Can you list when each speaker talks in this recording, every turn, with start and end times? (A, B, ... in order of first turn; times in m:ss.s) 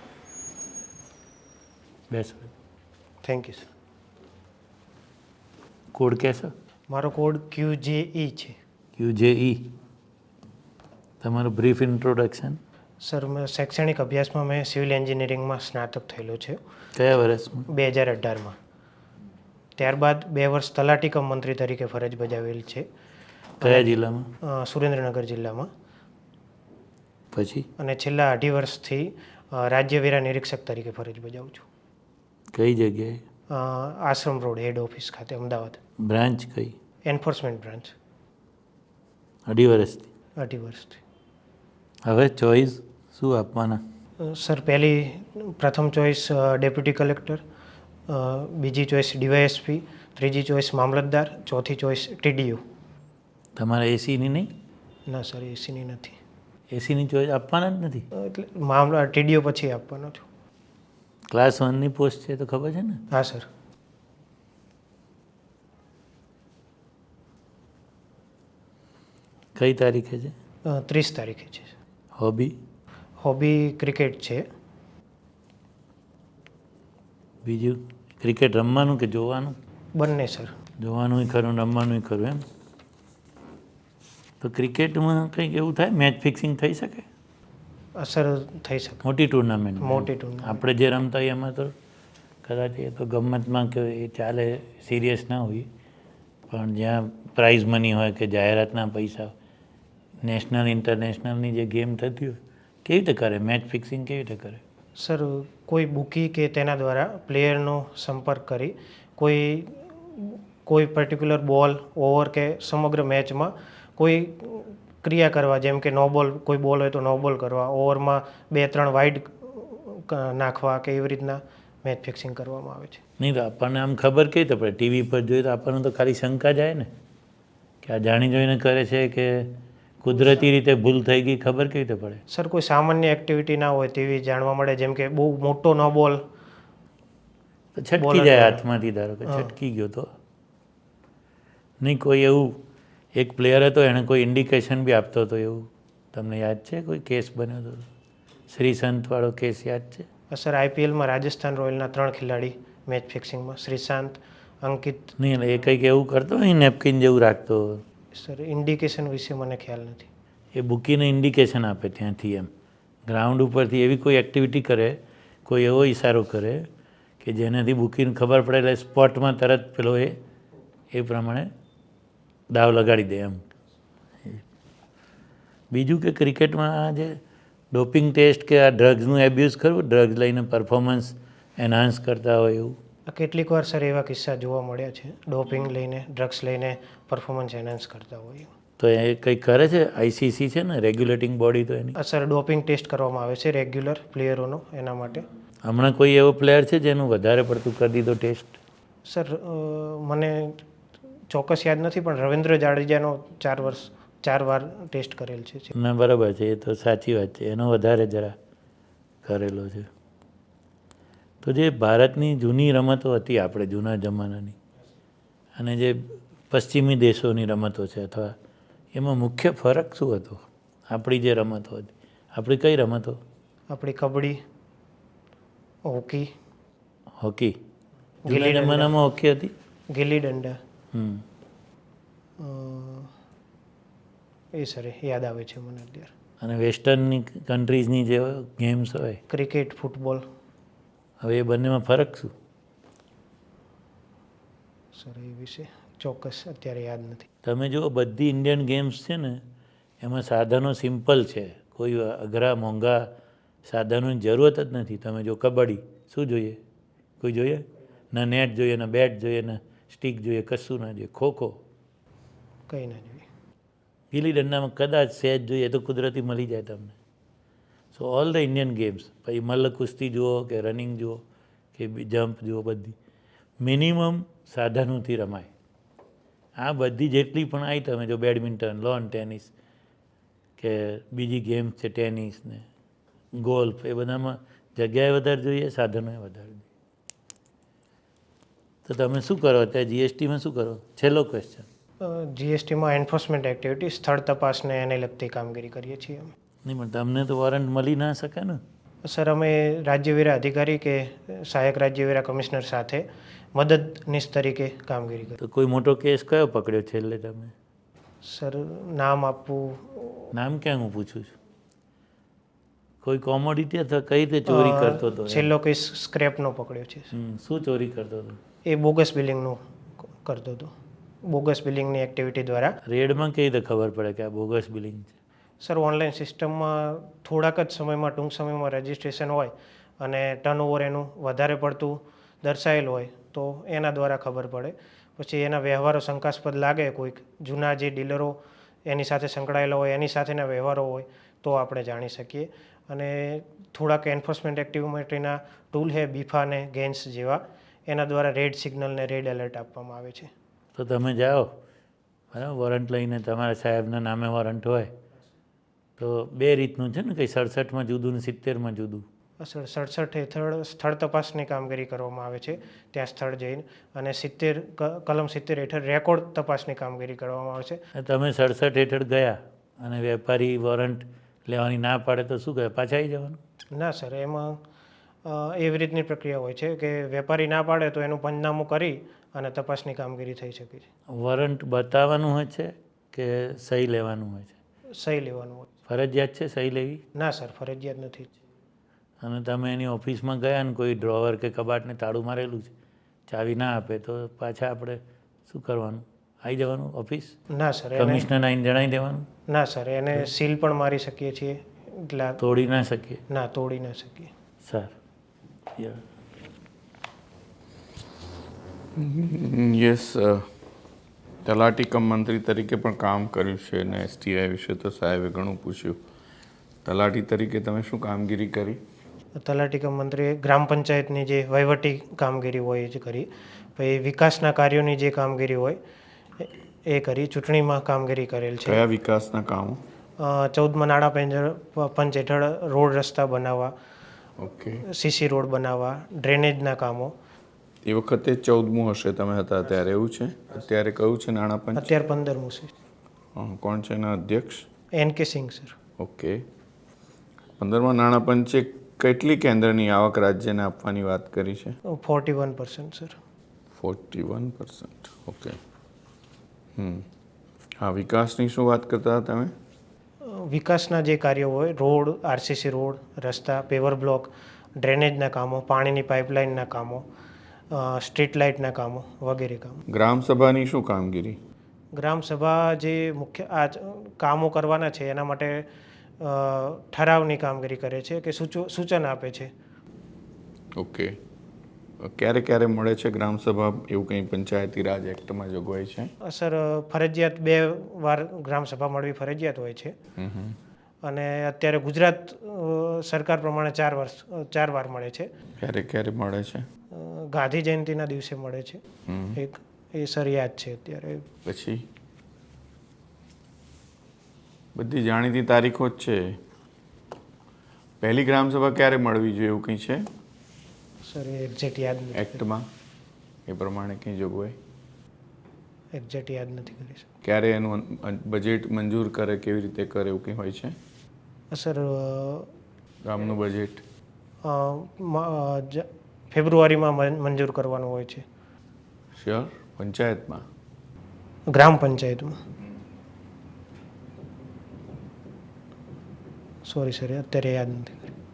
0:02.1-0:02.5 A
0:03.2-0:03.7 B
0:05.9-0:06.5 A
0:06.9-0:08.6 B
0:09.0-0:09.7 A
0:11.2-0:12.6 A
0:13.0-0:16.6 B
0:17.0-0:17.7 A
0:17.7-0:18.6 B
0:19.8-0:22.9 B
0:23.6-0:25.7 B
0:23.6-0:24.3 A
0:27.3-0:27.7 A
0:27.8-0:31.6 B
0:32.5-0:33.2 A
0:33.5-0:35.8 B
0:36.0-0:36.8 A
0:37.0-0:37.9 B
0:39.5-0:40.1 A
0:40.4-0:41.0 B
0:42.0-0:43.8 A
0:44.2-0:47.4 B
0:48.1-0:52.6 B
0:53.6-0:54.5 A
0:55.1-0:56.2 B
0:56.7-0:58.1 A
0:58.2-1:00.2 B
1:01.3-1:03.0 A
1:03.1-1:03.5 B
1:09.6-1:10.3 A
1:10.6-1:11.7 B
1:12.2-1:12.6 A
1:13.2-1:14.5 B
1:17.4-1:19.6 A
1:20.0-1:20.5 B
1:20.8-1:22.4 A
1:24.4-1:27.1 A
1:28.0-1:29.0 B
1:29.0-1:31.8 A
1:29.8-1:30.6 B
1:32.4-1:35.7 A
1:36.5-1:39.3 A
1:40.2-1:44.6 A
1:45.0-2:03.0 B
2:03.2-2:06.9 A
2:07.8-2:12.2 A
2:12.3-2:16.3 B
2:17.8-2:20.1 A
2:18.0-2:18.6 B
2:19.3-2:19.5 B
2:21.8-2:22.6 A
2:23.2-2:27.9 A
2:28.5-2:30.1 A
2:30.3-2:35.2 B
2:35.2-2:37.8 A
2:38.1-2:40.1 B
2:40.6-2:42.5 A
2:43.1-2:46.7 A
2:47.2-2:50.2 A
2:50.9-2:51.5 A
2:52.5-2:53.4 A
2:55.7-2:57.2 A
2:57.7-3:02.8 A
3:03.1-3:08.5 B
3:08.8-3:12.0 A
3:12.0-3:15.3 B
3:15.6-3:18.6 A
3:19.1-3:20.6 B
3:21.3-3:25.7 B
3:25.7-3:28.4 A
3:29.2-3:29.9 A
3:31.4-3:34.6 A
3:35.6-3:38.4 A
3:38.9-3:43.2 A
3:43.7-3:44.4 B
3:45.8-3:46.4 B
3:47.2-3:47.6 A
3:48.3-3:48.9 B
3:48.3-3:49.5 A
3:49.9-3:50.6 B
3:50.9-3:51.2 A
3:52.4-3:53.1 B
3:54.5-3:56.1 B
3:56.4-3:59.2 A
3:59.3-4:00.2 B
4:01.2-4:02.3 A
4:04.9-4:07.3 B
4:07.4-4:09.4 A
4:10.0-4:13.1 A
4:13.6-4:16.6 A
4:17.2-4:21.6 A
4:22.7-4:23.3 B
4:24.1-4:27.0 A
4:27.9-4:31.2 A
4:31.8-4:33.0 A
4:33.6-4:35.5 A
4:36.6-4:39.5 A
4:40.6-4:42.7 A
4:43.3-4:46.7 A
4:48.8-4:51.7 A
4:52.0-4:56.3 B
4:56.6-4:58.6 A
4:59.0-5:05.4 B
5:05.4-5:07.5 A
5:08.2-5:10.3 B
5:10.3-5:11.4 A
5:13.0-5:15.5 A
5:14.5-5:17.1 B
5:17.1-5:18.4 A
5:18.6-5:19.6 B
5:20.2-5:20.7 B
5:21.2-5:22.8 B
5:22.9-5:25.1 A
5:25.6-5:50.3 B
5:50.8-5:51.6 A
5:52.3-5:54.9 A
5:56.0-5:59.1 A
5:59.4-6:07.8 B
6:08.0-6:13.4 A
6:13.7-6:14.6 B
6:15.2-6:20.9 B
6:21.1-6:24.6 A
6:25.0-6:25.7 B
6:25.9-6:27.0 A
6:27.2-6:28.3 B
6:29.2-6:32.7 A
6:33.3-6:37.4 A
6:37.5-6:38.3 B
6:38.0-6:39.3 A
6:39.5-6:42.4 B
6:42.4-6:43.2 A
6:43.3-6:44.3 B
6:44.6-6:44.9 A
6:45.8-6:46.0 A
6:49.0-6:50.5 C
6:51.4-6:56.0 C
6:56.8-6:58.8 C
6:59.4-7:05.8 B
7:06.4-7:08.8 B
7:08.7-7:09.8 C
7:10.2-7:13.7 B
7:14.4-7:14.8 C
7:14.9-7:17.1 B
7:17.8-7:21.9 C
7:21.8-7:22.7 B
7:23.4-7:24.7 C
7:24.9-7:25.8 B
7:26.0-7:26.4 C
7:27.6-7:31.8 C
7:31.9-7:33.2 B
7:33.7-7:35.6 C
7:36.8-7:37.1 C
7:37.8-7:39.5 C
7:40.2-7:47.1 B
7:47.7-7:49.8 B
7:49.9-7:51.4 C
7:51.9-7:55.7 B
7:56.2-7:59.5 B
8:00.8-8:01.2 C
8:02.0-8:06.1 C
8:06.2-8:10.0 B
8:10.2-8:10.6 C
8:11.0-8:15.3 B
8:15.6-8:16.7 C
8:16.9-8:18.8 B
8:19.1-8:19.4 C
8:19.4-8:21.3 B
8:21.4-8:21.8 C
8:24.8-8:26.4 C
8:28.0-8:30.1 C
8:31.0-8:32.4 B
8:32.2-8:32.7 C
8:33.5-8:34.6 C
8:35.9-8:37.1 B
8:37.2-8:40.8 C
8:41.5-8:42.5 B
8:43.0-8:43.8 C
8:44.4-8:48.2 B
8:49.1-8:50.4 C
8:51.5-8:52.4 B
8:56.6-8:58.1 B